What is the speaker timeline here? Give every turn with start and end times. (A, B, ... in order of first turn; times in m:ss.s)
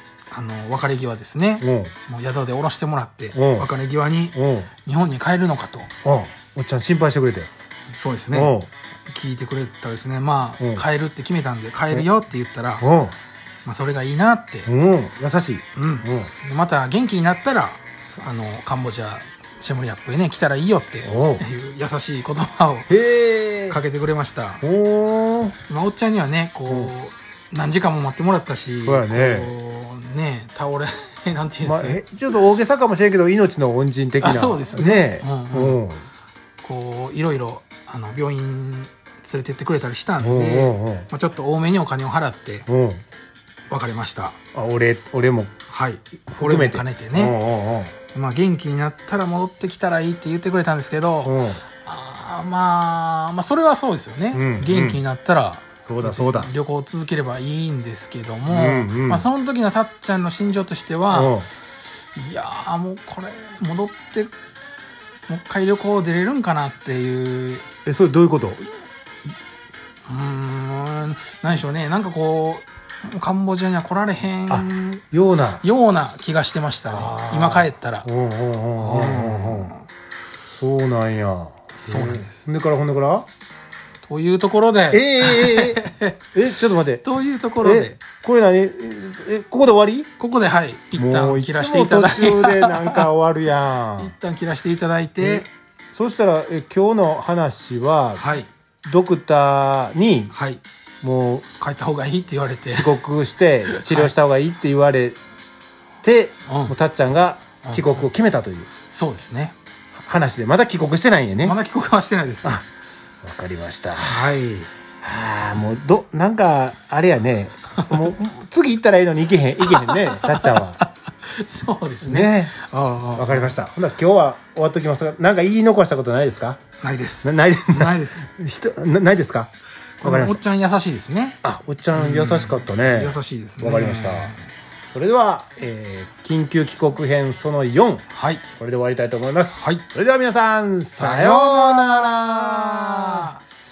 0:00.3-0:05.9 A
0:01.6-0:01.9 B
0:03.3-0:03.7 B
0:04.3-0:04.7 B
0:06.0-0:07.5 B
0:07.9-0:08.5 A
0:08.3-0:08.7 B
0:09.1-0:12.9 A
0:10.6-0:10.8 B
0:12.8-0:13.1 B
0:13.6-0:14.7 A
0:14.7-0:16.3 B
0:15.8-0:22.9 A
0:21.0-0:21.4 B
0:22.9-0:23.8 B
0:23.7-0:24.6 A
0:24.6-0:25.6 B
0:25.7-0:32.0 A
0:28.8-0:29.5 B
0:31.6-0:36.0 B
0:34.2-0:35.8 A
0:36.6-0:42.6 A
0:40.2-0:41.1 B
0:42.7-0:43.0 B
0:43.7-0:44.4 A
0:44.5-0:45.5 B
0:45.7-0:47.4 A
0:46.3-0:47.9 B
0:48.1-1:01.4 A
0:51.2-0:51.6 B
0:54.3-0:55.0 B
0:55.8-0:56.5 B
0:58.5-0:59.3 B
1:01.1-1:01.5 B
1:02.1-1:04.3 A
1:05.3-1:07.7 A
1:07.8-1:08.6 B
1:10.1-1:15.0 A
1:14.5-1:15.6 B
1:15.6-1:18.1 A
1:16.9-1:19.7 B
1:18.8-1:19.9 A
1:20.5-1:23.3 B
1:21.8-1:22.4 A
1:24.0-1:26.2 A
1:24.9-1:25.8 B
1:26.3-1:27.0 B
1:27.0-1:28.0 A
1:27.6-1:30.1 B
1:30.2-1:33.1 A
1:31.0-1:34.1 B
1:34.0-1:35.5 A
1:35.2-1:38.2 B
1:38.2-1:38.5 A
1:38.8-1:40.3 B
1:40.3-1:40.6 A
1:41.0-1:41.5 B
1:41.6-1:43.0 A
1:42.7-1:45.2 B
1:43.7-1:44.1 A
1:46.0-1:48.7 B
1:46.5-1:46.7 A
1:47.6-1:48.0 A
1:48.9-1:49.6 A
1:50.0-1:51.6 B
1:51.4-1:52.6 A
1:53.2-1:54.4 B
1:54.0-1:54.7 A
1:55.0-2:00.8 B
1:57.7-1:58.0 A
1:59.6-2:03.5 A
2:02.0-2:02.6 B
2:03.1-2:06.6 B
2:06.8-2:08.3 A
2:07.2-2:09.5 B
2:10.0-2:11.4 A
2:10.0-2:10.4 B
2:11.4-2:14.3 B
2:11.9-2:14.4 A
2:14.9-2:18.0 B
2:18.1-2:18.4 A
2:18.6-2:23.3 B
2:19.6-2:19.8 A
2:20.9-2:23.4 A